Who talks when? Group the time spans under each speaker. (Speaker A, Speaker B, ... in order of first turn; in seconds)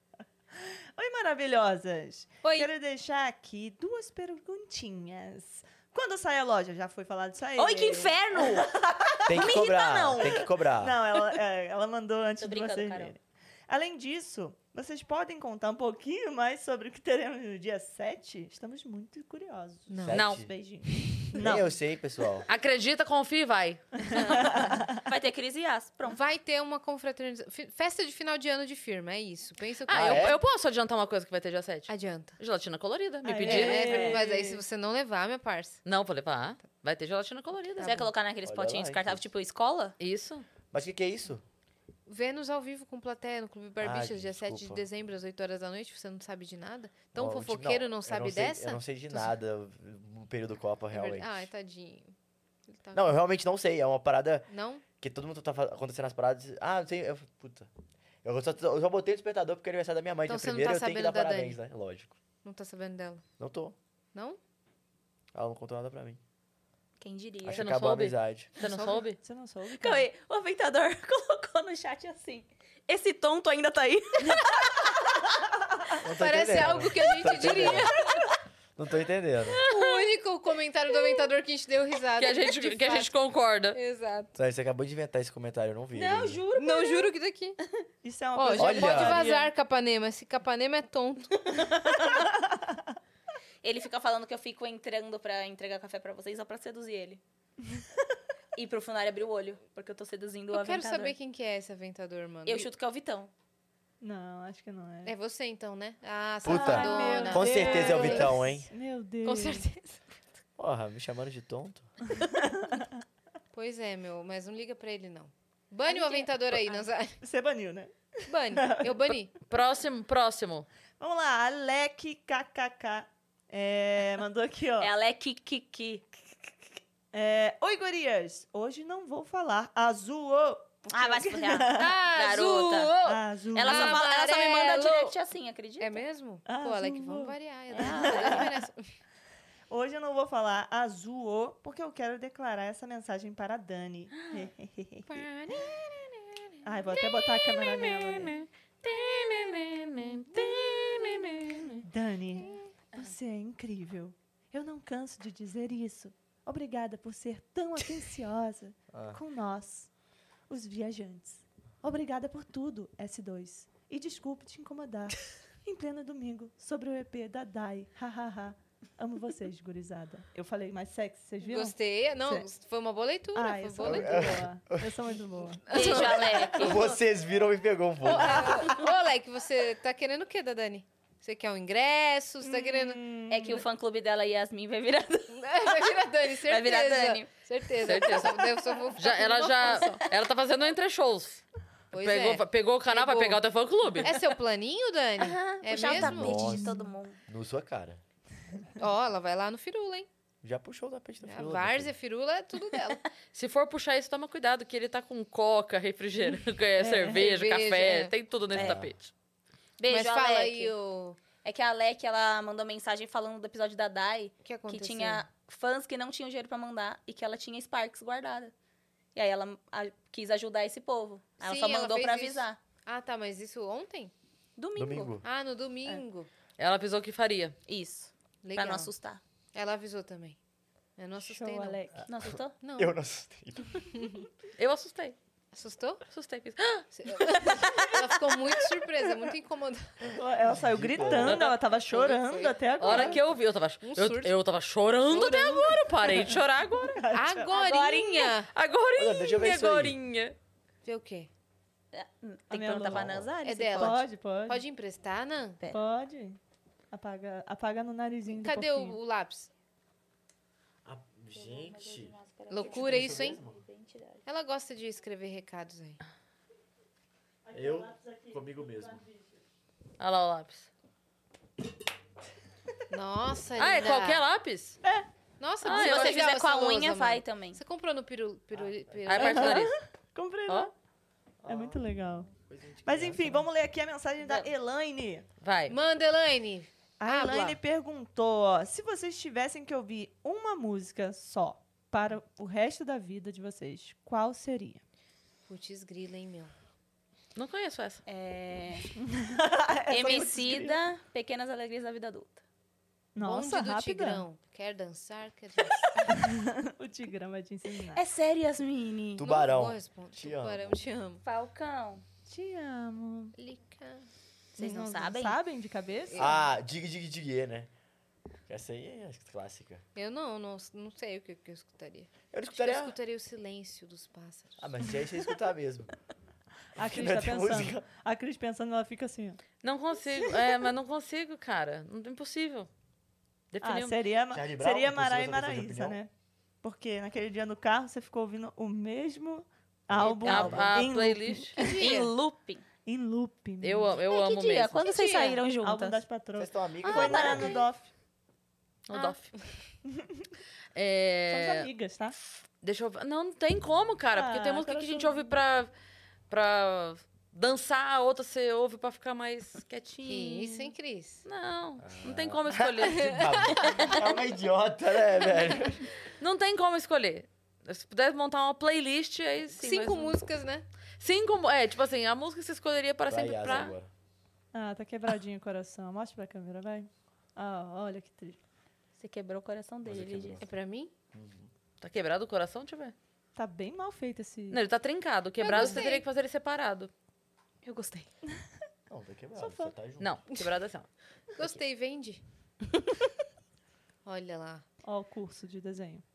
Speaker A: 0.6-9.5, 10.8-21.7, 24.0-25.0, 33.2-34.4, 69.2-70.1, 88.0-89.5, 91.8-92.8, 104.0-105.1, 106.4-109.7, 112.2-112.9, 117.2-119.0, 121.0-124.9, 127.1-131.9, 133.0-134.0, 136.4-138.6, 139.7-145.2, 146.6-148.4, 151.8-159.9, 160.5-172.4, 173.3-176.1, 182.4-183.6, 195.8-196.9, 206.8-207.2, 231.2-232.0, 240.1-243.2, 246.1-247.5, 252.5-254.6, 255.7-256.4, 256.9-259.0, 267.5-269.2, 279.1-280.7, 281.4-282.3, 282.8-285.2, 287.0-294.8, 299.0-300.8, 303.1-304.2, 306.0-308.0, 312.3-313.3, 314.6-316.3, 326.7-329.4, 333.6-336.1, 336.6-341.6, 342.9-344.0, 345.6-347.9, 349.8-350.3, 351.3-352.1, 354.1-355.3, 374.5-378.4, 383.4-384.6, 389.4-389.7, 394.8-396.0
Speaker B: 2.4-2.7, 7.6-8.7, 9.3-10.5, 12.4-13.1, 24.3-26.2, 37.8-40.0, 67.0-67.7, 69.8-74.9, 85.9-87.1, 93.6-97.2, 98.5-101.1, 102.5-103.3, 115.9-116.8, 124.8-126.0, 130.9-132.9, 133.5-136.0, 137.8-138.4, 175.7-176.9, 178.3-178.8, 183.3-185.7, 186.4-187.3, 189.7-190.0, 195.2-197.2, 209.8-210.7, 211.4-218.5, 219.1-222.6, 224.6-225.1, 227.7-229.2, 232.1-232.6, 247.5-248.3, 251.9-254.0, 261.3-264.2, 275.6-277.6, 284.2-284.5, 298.1-298.9, 299.9-302.4, 307.9-309.4, 311.2-312.0, 314.6-315.4, 340.2-340.5, 341.6-342.6, 344.1-346.0, 346.8-347.6, 379.0-380.4, 385.6-385.8, 387.6-388.1
Speaker C: 9.3-11.0, 20.0-20.5, 21.3-22.5, 29.9-30.4, 38.4-39.2, 40.7-41.4, 43.8-44.8, 47.1-51.5, 52.9-57.7, 58.2-62.2, 63.4-63.8, 65.3-66.2, 67.5-68.5, 76.0-77.9, 78.8-79.6, 84.4-86.4, 88.6-89.3, 106.4-108.7, 110.6-111.9, 158.9-159.2, 173.8-175.0, 176.6-178.6, 196.0-196.7, 197.3-198.0, 200.4-201.9, 208.5-208.9, 224.8-225.2, 231.9-233.8, 240.5-241.4, 249.0-250.0, 252.8-253.3, 260.8-263.6, 267.5-269.0, 278.5-279.2, 281.4-281.8, 282.4-283.5, 309.1-310.8, 316.1-317.7, 318.5-319.8, 322.3-322.9, 324.6-325.9, 326.8-327.8, 334.3-336.0, 339.9-340.8, 346.3-347.6, 361.8-365.8, 373.1-373.9, 379.8-380.4, 381.1-381.5, 388.9-390.2
Speaker D: 19.9-20.2, 24.2-24.5, 26.1-30.3, 31.9-32.4, 33.5-35.8, 37.8-38.1, 42.1-49.3, 50.9-52.1, 52.7-53.0, 54.5-54.8, 60.3-61.6, 62.4-63.2, 68.6-69.0, 76.1-78.0, 79.6-83.1, 83.7-84.3, 86.5-87.6, 88.3-91.7, 100.5-102.7, 105.0-108.5, 109.2-110.0, 113.5-117.2, 118.3-119.3, 131.8-135.1, 135.8-138.8, 145.1-146.5, 171.4-174.4, 175.7-176.8, 178.0-183.0, 185.3-190.0, 191.9-193.4, 193.9-196.4, 198.8-200.1, 201.2-203.0, 207.0-208.1, 209.9-211.2, 214.4-215.2, 221.4-224.1, 225.2-226.3, 228.4-228.9, 229.5-230.4, 231.0-231.8, 232.6-232.9, 233.9-234.2, 235.5-236.0, 236.9-240.2, 241.8-244.3, 245.1-245.8, 247.1-248.5, 250.8-251.3, 253.4-255.6, 258.3-259.5, 262.5-263.4, 264.2-266.0, 272.9-274.2, 275.4-279.6, 285.7-287.6, 295.5-296.5, 303.2-306.0, 309.2-311.2, 313.4-314.1, 316.1-316.5, 319.9-324.6, 341.6-342.1, 344.8-345.4, 360.1-361.2, 362.8-363.8, 369.6-370.6, 380.4-380.9, 385.4-386.0, 391.3-392.2, 394.0-394.6
Speaker E: 20.1-20.4, 20.9-21.3, 22.5-24.0, 29.9-34.3, 35.8-38.1, 40.0-40.5, 67.5-69.2, 79.5-80.0, 82.2-83.8, 119.5-120.7, 147.9-151.8, 187.8-188.4, 189.0-191.4, 191.9-194.1, 203.3-209.1, 226.6-227.6, 234.6-235.2, 236.1-237.8, 241.2-241.5, 242.8-247.0, 248.5-250.3, 270.0-270.7, 273.6-274.8, 275.6-276.2, 279.1-279.7, 285.4-285.8, 297.4-298.0, 329.6-332.7, 333.5-333.9, 340.2-341.6, 343.6-344.8, 348.9-349.3, 350.7-351.7, 352.6-355.7, 356.3-360.7, 361.2-363.9, 366.2-370.2, 371.0-373.7, 381.8-382.9, 384.5-386.9, 390.0-390.9